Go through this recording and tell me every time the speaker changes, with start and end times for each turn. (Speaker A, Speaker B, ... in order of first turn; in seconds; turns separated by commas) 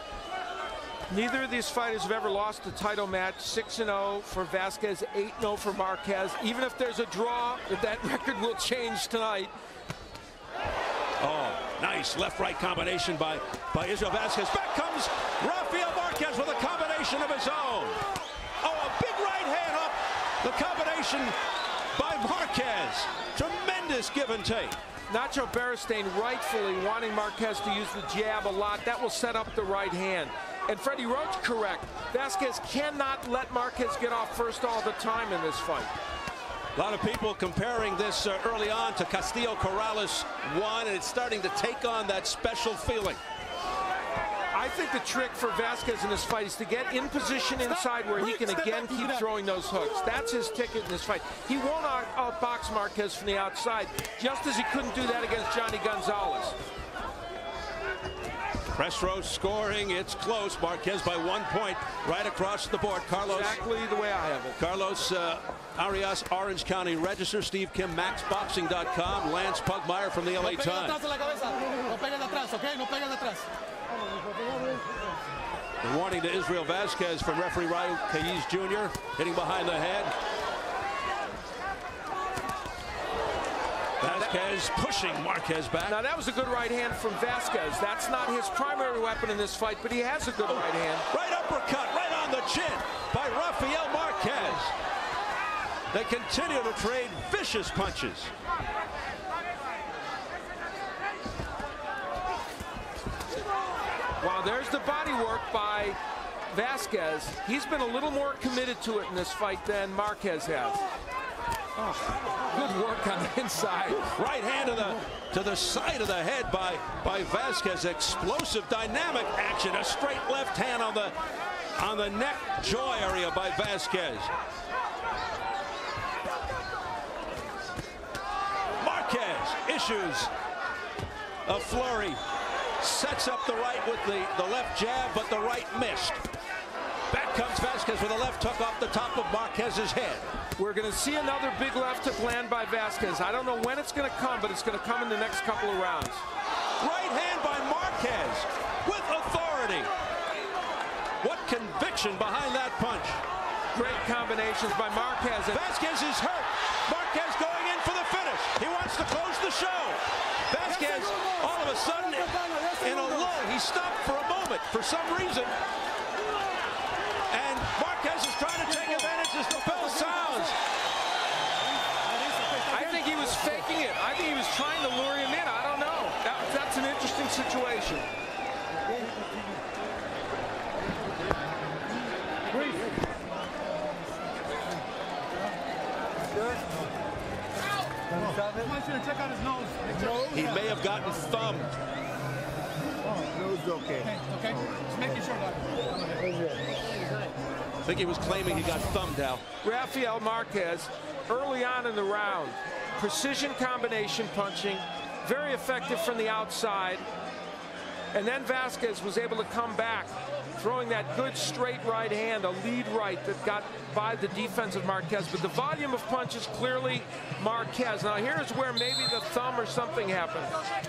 Speaker A: 1.1-9.5, Speaker B: 11.2-18.0, Speaker B: 18.6-21.3, Speaker B: 21.9-24.8, Speaker A: 25.1-35.9, Speaker B: 36.7-43.2, Speaker A: 44.5-56.5, Speaker C: 47.7-49.3, Speaker B: 58.7-63.6, Speaker A: 63.2-64.6, Speaker B: 64.6-71.0, Speaker C: 70.4-73.5, Speaker B: 75.8-80.1, Speaker B: 84.0-86.0, Speaker A: 84.0-84.5, Speaker A: 85.9-91.0, Speaker B: 90.5-94.7, Speaker B: 95.9-98.3, Speaker A: 104.2-106.0, Speaker A: 106.5-110.8, Speaker A: 112.5-114.1, Speaker B: 114.0-121.1, Speaker B: 121.8-124.3, Speaker B: 128.8-130.3, Speaker B: 131.4-132.2, Speaker B: 132.8-136.2, Speaker B: 137.1-140.3, Speaker A: 140.6-146.2, Speaker B: 146.8-149.9, Speaker B: 151.2-153.2, Speaker A: 153.7-155.6, Speaker B: 155.5-165.5, Speaker C: 160.6-163.4, Speaker B: 167.3-170.6, Speaker C: 168.7-170.5, Speaker C: 172.1-173.6, Speaker A: 172.7-178.1, Speaker D: 178.9-179.4, Speaker D: 186.2-186.7, Speaker D: 188.1-188.7, Speaker C: 188.1-190.3, Speaker B: 190.3-191.7, Speaker D: 193.2-194.1, Speaker C: 194.0-196.2, Speaker D: 196.2-196.6, Speaker B: 197.8-199.4, Speaker A: 199.6-207.1, Speaker A: 208.1-220.5